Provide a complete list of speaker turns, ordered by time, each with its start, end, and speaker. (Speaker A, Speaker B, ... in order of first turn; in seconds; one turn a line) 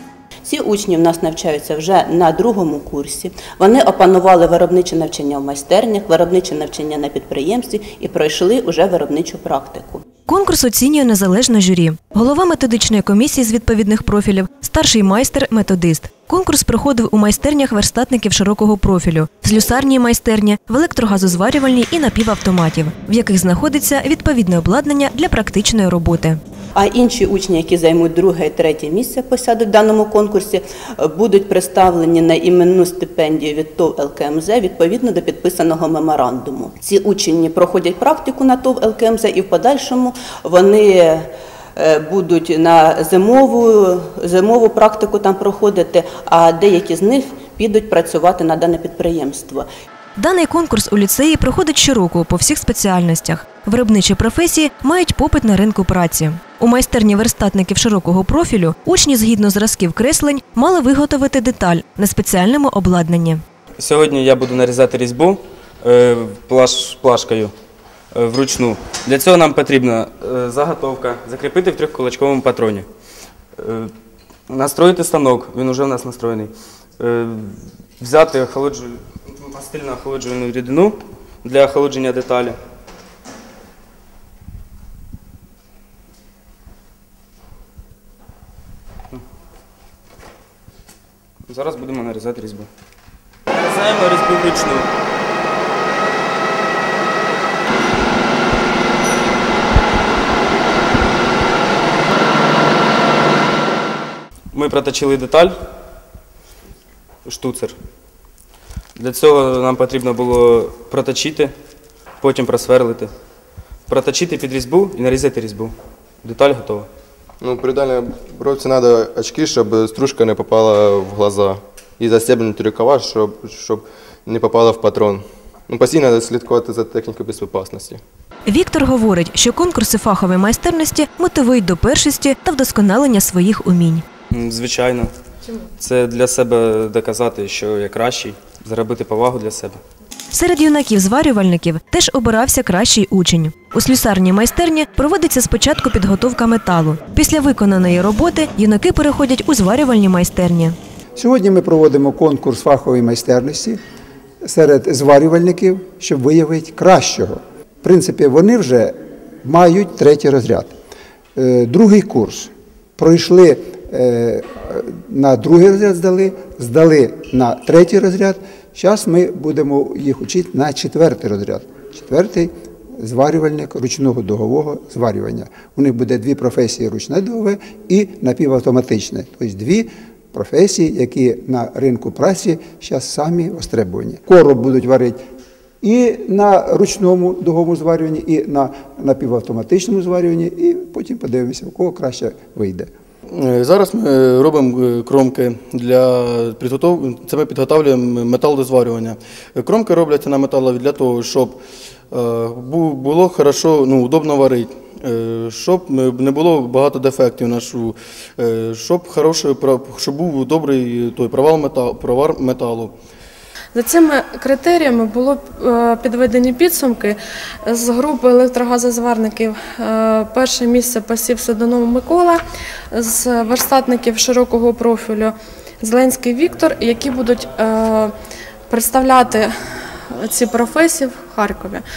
Speaker A: 0.4-10.0
Speaker B: 10.3-26.4
Speaker A: 26.7-49.7
Speaker B: 50.2-63.4
Speaker C: 63.8-67.5
Speaker C: 68.1-72.9
Speaker C: 73.6-73.9
Speaker C: 74.5-82.5
Speaker C: 91.5-92.7
Speaker C: 93.5-94.9
Speaker C: 104.5-105.5
Speaker C: 107.2-107.7
Speaker C: 109.0-111.5
Speaker C: 112.2-113.1
Speaker C: 113.9-116.9
Speaker D: 117.4-128.0
Speaker B: 128.5-134.0
Speaker C: 134.3-135.1
Speaker C: 135.8-139.8
Speaker B: 140.3-150.7
Speaker E: 151.2-153.8
Speaker E: 154.4-160.7
Speaker E: 161.3-185.2
Speaker E: 185.8-192.9
Speaker F: 193.3-201.6
Speaker F: 202.1-212.9
Speaker G: 213.7-222.4
Speaker G: 222.9-228.1
Speaker G: 228.7-229.5
Speaker G: 230.1-231.8